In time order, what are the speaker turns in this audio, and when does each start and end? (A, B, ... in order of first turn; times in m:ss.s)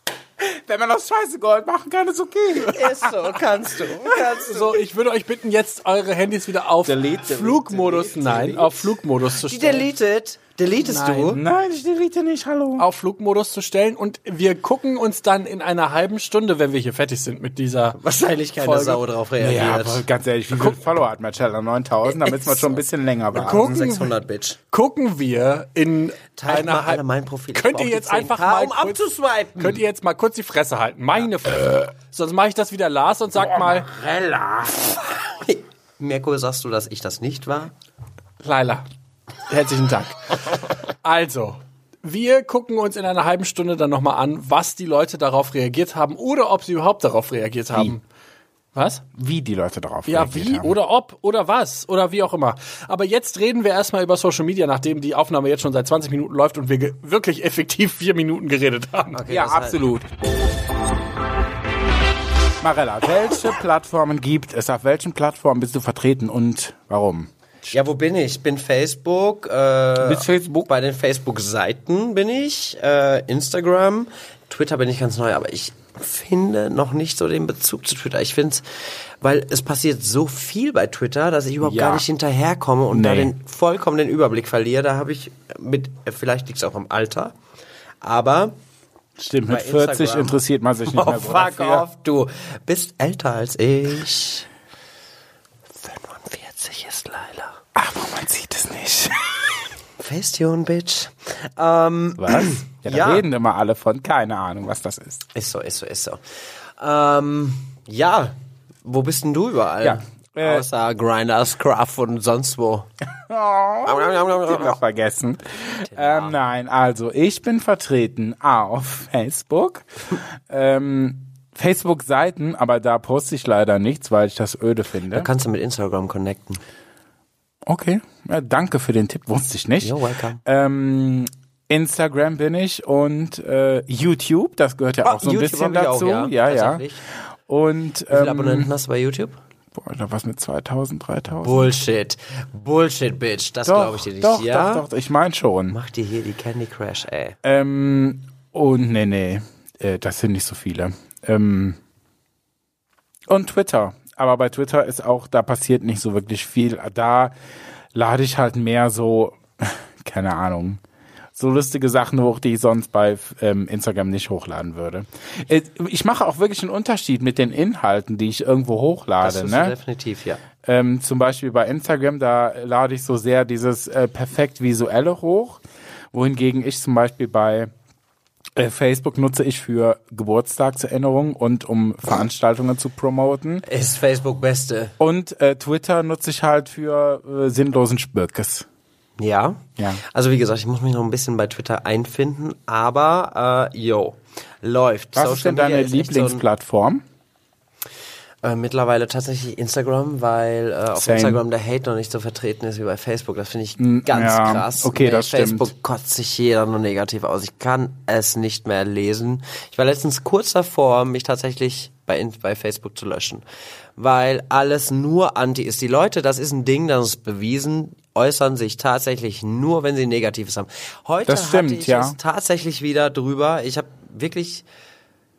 0:00.4-0:03.4 A
0:02.5-0:04.8 B
0:04.3-0:09.9 C
0:06.8-0:08.9 A
0:09.4-0:11.4 B
0:10.8-0:11.4 C
0:11.3-0:12.9 A
0:12.8-0:18.0 C
0:18.0-0:20.0 B
0:18.6-0:19.0 C
0:19.4-0:23.8 A
0:20.5-0:20.8 C
0:22.1-0:22.8 B
0:23.3-0:24.6 B
0:23.4-0:24.2 C
0:24.7-0:29.0 C
0:26.4-0:29.8 B
0:29.6-0:33.9 C
0:33.3-0:34.8 A
0:34.8-0:37.7 B
0:38.4-0:38.9 C
0:39.5-0:48.0 C
0:47.7-0:48.0 A
0:48.8-0:49.0 C
0:49.2-0:50.8 A
0:50.1-0:59.2 C
0:59.1-0:59.8 B
0:59.3-1:00.1 A
1:02.6-1:07.3 A
1:07.7-1:18.6 B
1:10.0-1:10.7 A
1:19.2-1:27.4 B
1:21.6-1:22.1 A
1:22.9-1:23.3 A
1:28.0-1:28.6 B
1:29.2-1:31.8 A
1:29.5-1:30.4 B
1:30.9-1:34.5 B
1:35.8-1:37.6 B
1:37.8-1:39.6 A
1:40.0-1:43.2 B
1:42.2-1:45.2 A
1:45.3-1:46.2 B
1:46.8-1:52.9 B
1:49.8-1:50.6 A
1:53.3-2:05.3 A
1:53.9-1:54.8 B
1:55.6-1:56.4 B
2:05.1-2:06.6 B
2:07.7-2:16.8 A
2:09.8-2:10.4 B
2:15.0-2:17.0 B
2:17.5-2:18.7 A
2:18.1-2:19.4 B
2:19.8-2:21.8 A
2:21.4-2:24.8 B
2:23.6-2:25.8 A
2:25.7-2:27.4 B
2:27.4-2:31.8 A
2:33.3-2:37.3 A
2:37.9-2:40.8 A
2:41.4-2:49.8 A
2:49.2-2:50.4 B
2:50.6-2:57.7 A
2:58.6-3:03.6 A
3:03.7-3:04.9 B
3:05.0-3:08.7 A
3:09.2-3:16.4 B
3:15.2-3:17.0 A
3:18.4-3:33.4 B
3:21.0-3:21.4 A
3:23.8-3:25.7 A
3:34.0-3:44.6 B
3:41.3-3:42.2 A